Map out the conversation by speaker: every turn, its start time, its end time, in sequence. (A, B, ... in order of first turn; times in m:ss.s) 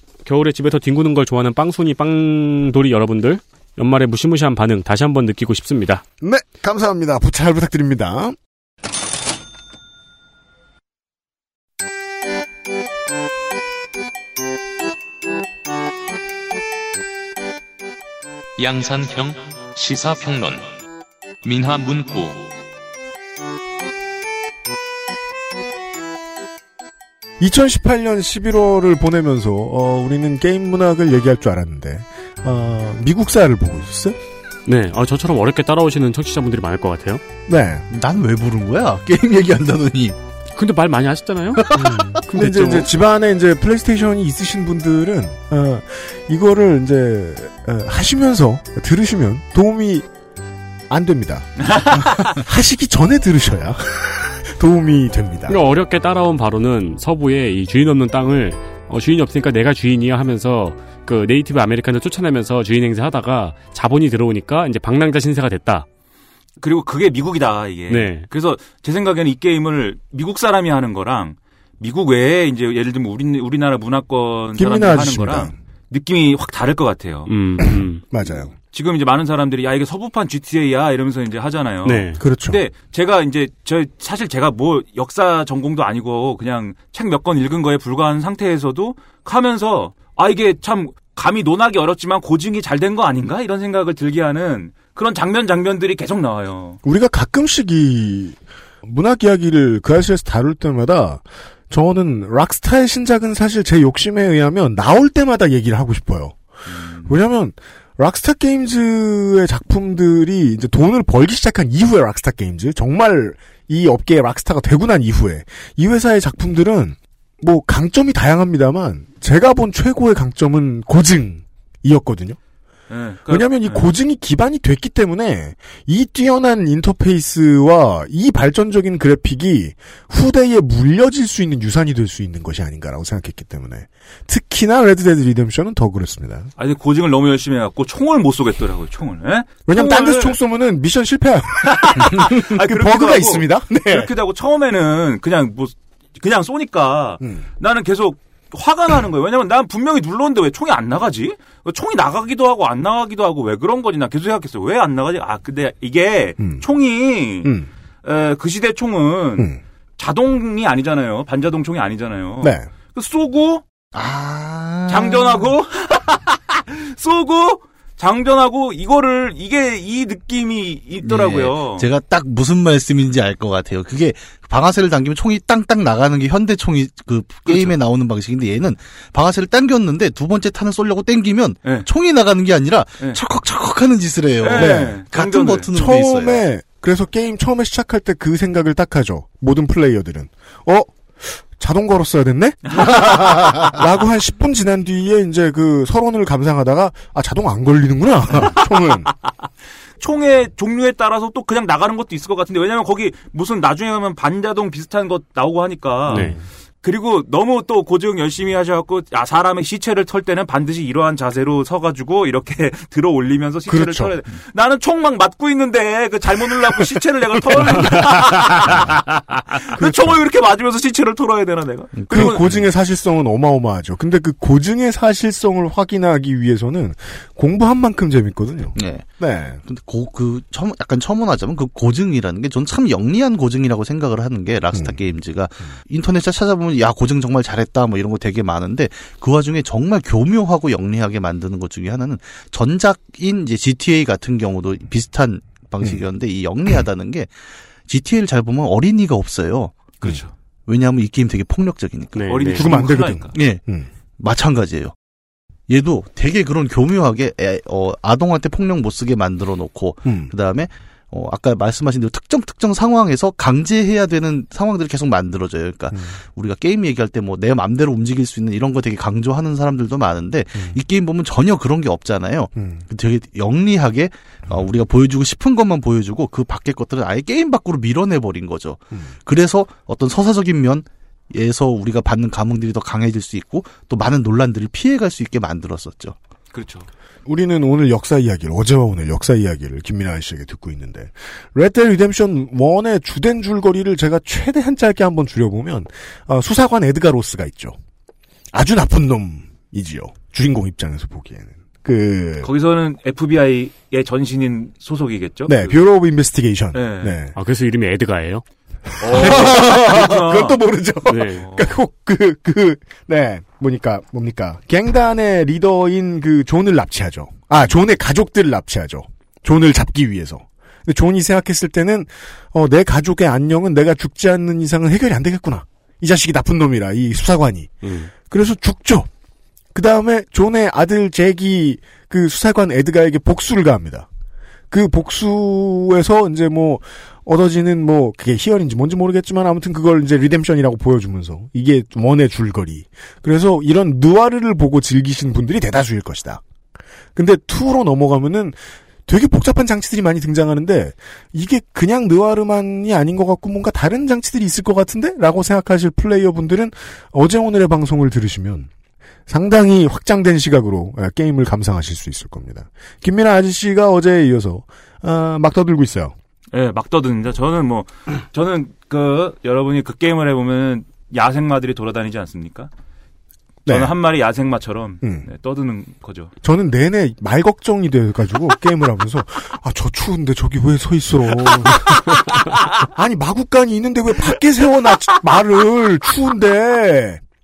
0:00.2-0:06.0 A
0:06.2-0:08.4 B
0:18.6-0:20.7 C
0:21.4-0:22.5 C
0:27.4-0:34.2 B
0:34.6-0:37.2 A
0:37.4-0:37.8 B
0:37.9-0:40.2 D
0:40.5-0:41.6 A
0:41.7-0:42.0 D
0:41.7-0:50.0 B
0:42.3-0:42.9 A
0:50.9-0:55.6 B
0:51.6-0:52.2 E
0:55.5-1:05.8 A
1:06.6-1:17.3 E
1:07.9-1:08.3 A
1:14.5-1:15.5 B
1:17.3-1:18.0 A
1:17.6-1:18.5 B
1:18.7-1:36.8 E
1:21.8-1:22.2 A
1:22.2-1:22.6 B
1:36.8-1:46.4 B
1:46.7-1:47.1 E
1:47.0-2:02.4 B
2:02.9-2:03.9 E
2:03.3-2:16.5 B
2:16.6-2:20.4 E
2:19.6-2:24.1 B
2:21.6-2:37.5 E
2:38.0-2:43.6 E
2:42.4-2:42.7 B
2:43.9-2:45.5 D
2:44.9-2:51.9 E
2:51.0-3:06.4 D
2:57.4-2:57.7 E
3:04.4-3:05.7 E
3:04.5-3:05.0 B
3:05.7-3:19.1 B
3:12.7-3:13.1 E
3:20.0-3:42.4 E
3:26.1-3:26.4 A
3:33.7-3:34.1 B
3:37.7-3:38.7 B
3:42.0-3:42.6 D
3:42.1-3:49.6 B
3:48.8-3:49.1 D
3:49.6-4:07.3 D
4:07.8-4:09.8 D
4:10.0-4:10.3 E
4:10.7-4:12.4 D
4:12.1-4:12.7 A
4:12.3-4:13.3 E
4:12.5-4:13.9 B
4:13.3-4:13.6 D
4:14.2-4:14.9 D
4:15.7-4:46.1 D
4:20.0-4:20.3 B
4:32.6-4:32.8 B
4:46.5-4:46.9 E
4:47.2-4:57.8 B
4:58.5-5:02.5 B
5:02.4-5:05.8 E
5:05.5-5:07.3 B
5:06.7-5:07.2 E
5:07.4-5:08.4 A
5:09.0-5:10.6 E
5:09.0-5:09.6 A
5:09.1-5:29.1 B
5:11.1-5:11.4 A
5:11.4-5:11.7 E
5:27.8-5:28.1 A
5:29.7-5:34.1 B
5:34.7-5:46.4 B
5:47.1-5:58.7 B
5:59.3-6:06.1 B
6:06.5-6:12.7 E
6:13.6-6:13.9 B
6:13.6-6:16.3 E
6:15.0-6:15.3 B
6:16.4-6:22.2 B
6:21.4-6:22.8 E
6:22.9-6:27.2 B
6:25.0-6:25.4 E